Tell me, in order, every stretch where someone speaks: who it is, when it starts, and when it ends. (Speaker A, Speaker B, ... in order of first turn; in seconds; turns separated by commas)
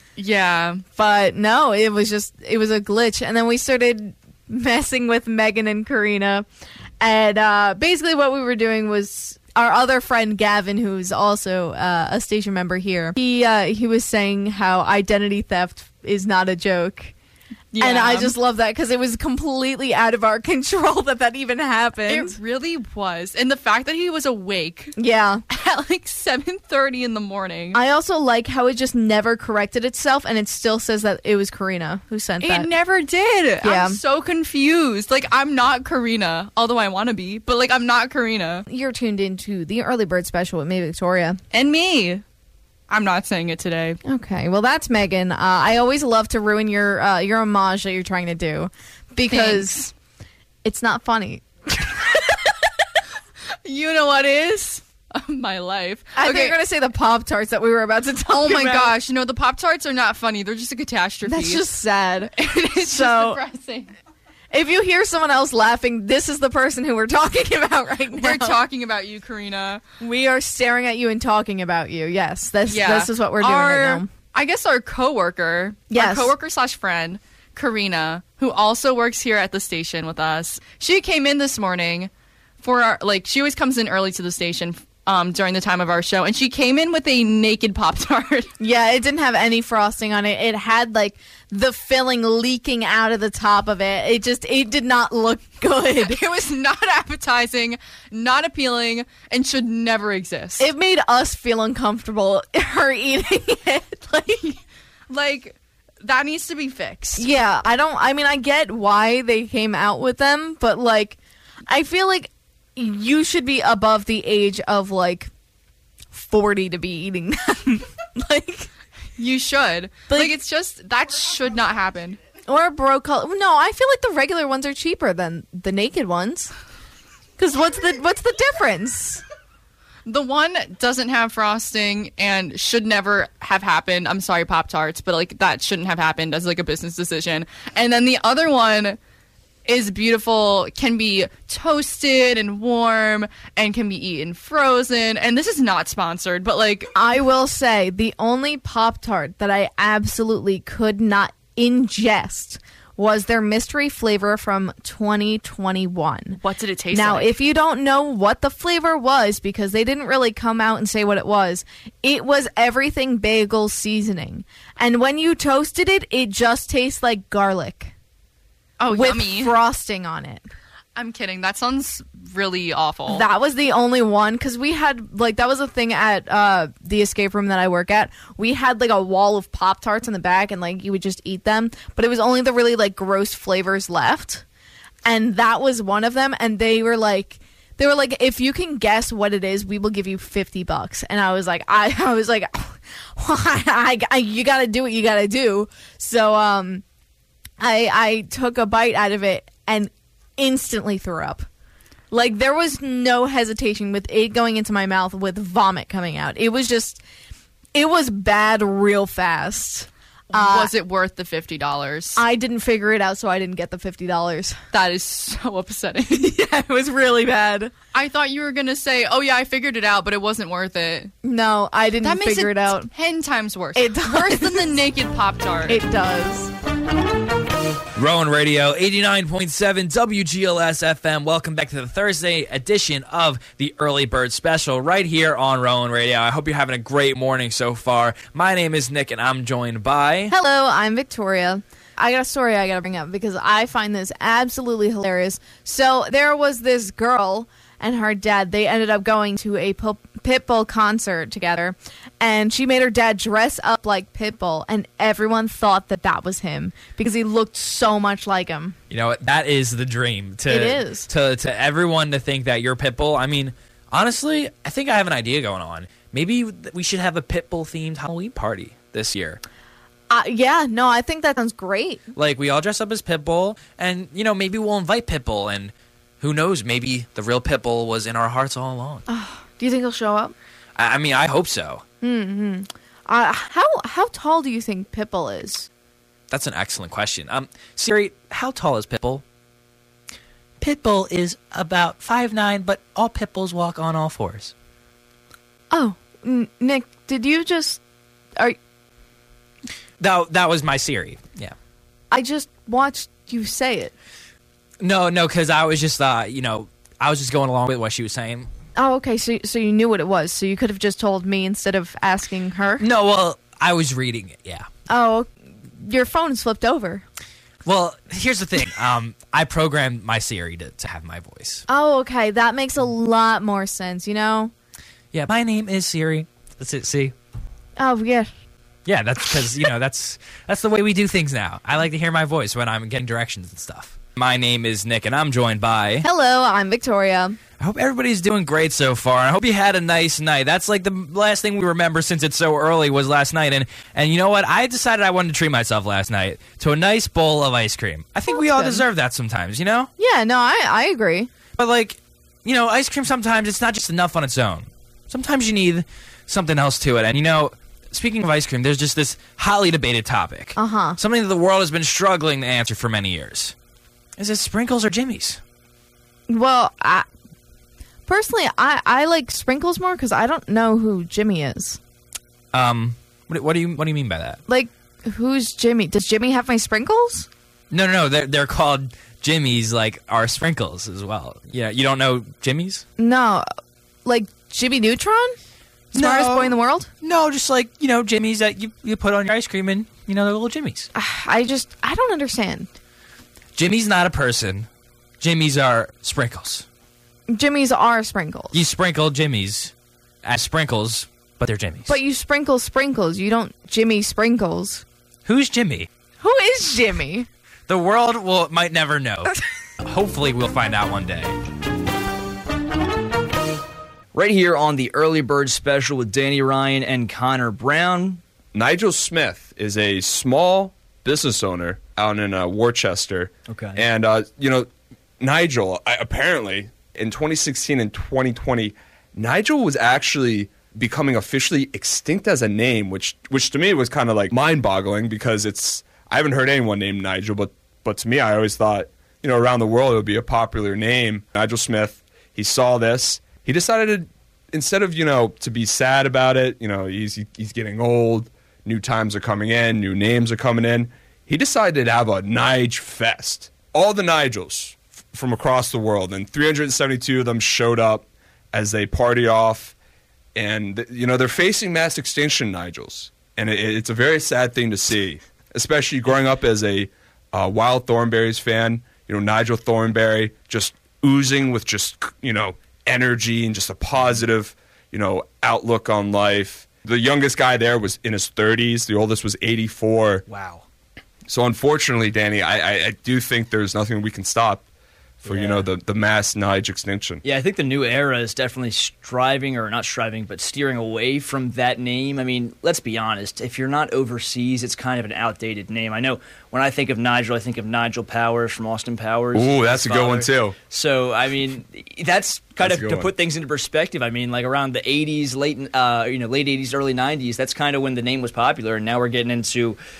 Speaker A: 0.2-0.8, Speaker B: 0.9-6.4, Speaker B: 7.0-17.1, Speaker A: 17.7-18.3, Speaker B: 17.8-22.4, Speaker A: 22.1-24.9, Speaker B: 25.0-25.4, Speaker A: 25.5-27.8, Speaker B: 27.7-32.7, Speaker A: 32.4-38.6, Speaker B: 33.6-34.0, Speaker B: 38.7-41.4, Speaker A: 41.5-42.2, Speaker A: 42.9-44.0, Speaker B: 44.0-49.9, Speaker A: 49.3-49.8, Speaker B: 50.6-52.4, Speaker A: 53.6-56.6, Speaker B: 56.1-58.9, Speaker A: 58.3-61.6, Speaker B: 61.2-63.4, Speaker A: 62.3-63.9, Speaker B: 64.5-68.6, Speaker A: 68.1-69.8, Speaker B: 70.0-74.1, Speaker A: 72.7-82.1, Speaker B: 75.9-76.3, Speaker A: 82.6-88.5, Speaker B: 88.6-96.2, Speaker A: 96.0-100.7, Speaker B: 100.6-104.6, Speaker A: 105.1-107.2, Speaker B: 107.2-115.3, Speaker B: 116.1-118.7, Speaker A: 119.2-122.2, Speaker B: 120.1-120.3, Speaker B: 122.5-126.5, Speaker B: 127.4-129.2, Speaker A: 130.1-139.0, Speaker A: 139.7-146.9, Speaker B: 146.9-156.4, Speaker A: 156.4-157.3, Speaker B: 156.9-167.9, Speaker A: 168.8-169.5, Speaker B: 168.9-170.4, Speaker A: 170.9-173.2, Speaker B: 173.1-184.4, Speaker B: 185.0-196.8, Speaker B: 197.6-201.4, Speaker B: 202.1-207.0, Speaker B: 207.7-210.7, Speaker A: 210.3-212.2, Speaker B: 212.2-214.6, Speaker A: 214.7-216.3, Speaker B: 216.1-217.7, Speaker A: 217.9-221.1, Speaker B: 221.2-222.9, Speaker A: 222.0-225.8, Speaker B: 223.7-224.7, Speaker B: 225.7-226.5, Speaker C: 228.0-240.3, Speaker B: 240.3-258.8, Speaker C: 258.9-269.4, Speaker B: 260.5-261.1, Speaker B: 270.1-272.0, Speaker C: 272.1-279.0, Speaker B: 279.1-280.3, Speaker C: 280.8-281.8, Speaker B: 282.0-285.7, Speaker C: 286.3-289.2, Speaker C: 290.6-294.5, Speaker B: 295.7-297.8, Speaker C: 300.0-301.5, Speaker B: 302.1-303.9, Speaker C: 304.8-308.5, Speaker B: 308.8-312.8, Speaker C: 312.8-314.7, Speaker B: 314.9-317.0, Speaker C: 317.6-321.6, Speaker B: 321.7-324.5, Speaker C: 325.1-327.1, Speaker B: 327.8-328.3, Speaker C: 328.9-336.1, Speaker B: 336.0-337.4, Speaker C: 337.6-349.9, Speaker B: 348.5-348.8, Speaker B: 350.0-351.3, Speaker C: 351.6-363.5, Speaker B: 360.6-361.0, Speaker C: 364.2-365.4, Speaker B: 366.3-367.1, Speaker B: 368.1-371.8, Speaker C: 372.5-374.4, Speaker B: 374.5-377.3, Speaker C: 377.7-382.8, Speaker B: 383.0-383.5, Speaker B: 384.0-385.3, Speaker C: 385.9-390.9, Speaker B: 385.9-386.9, Speaker B: 390.9-392.7, Speaker C: 393.5-394.7, Speaker C: 395.2-396.6, Speaker B: 397.3-398.6, Speaker C: 398.5-399.7, Speaker C: 400.2-401.9, Speaker B: 401.9-404.8, Speaker C: 405.2-405.9, Speaker B: 406.2-407.3, Speaker C: 407.7-411.3, Speaker D: 414.1-418.2, Speaker E: 418.5-424.7, Speaker D: 423.5-423.8, Speaker E: 425.2-459.8, Speaker E: 460.3-480.2, Speaker D: 480.3-480.6, Speaker E: 481.3-484.6, Speaker E: 485.2-487.2, Speaker D: 485.2-485.7, Speaker D: 487.2-509.8, Speaker E: 499.3-500.6, Speaker E: 502.6-503.1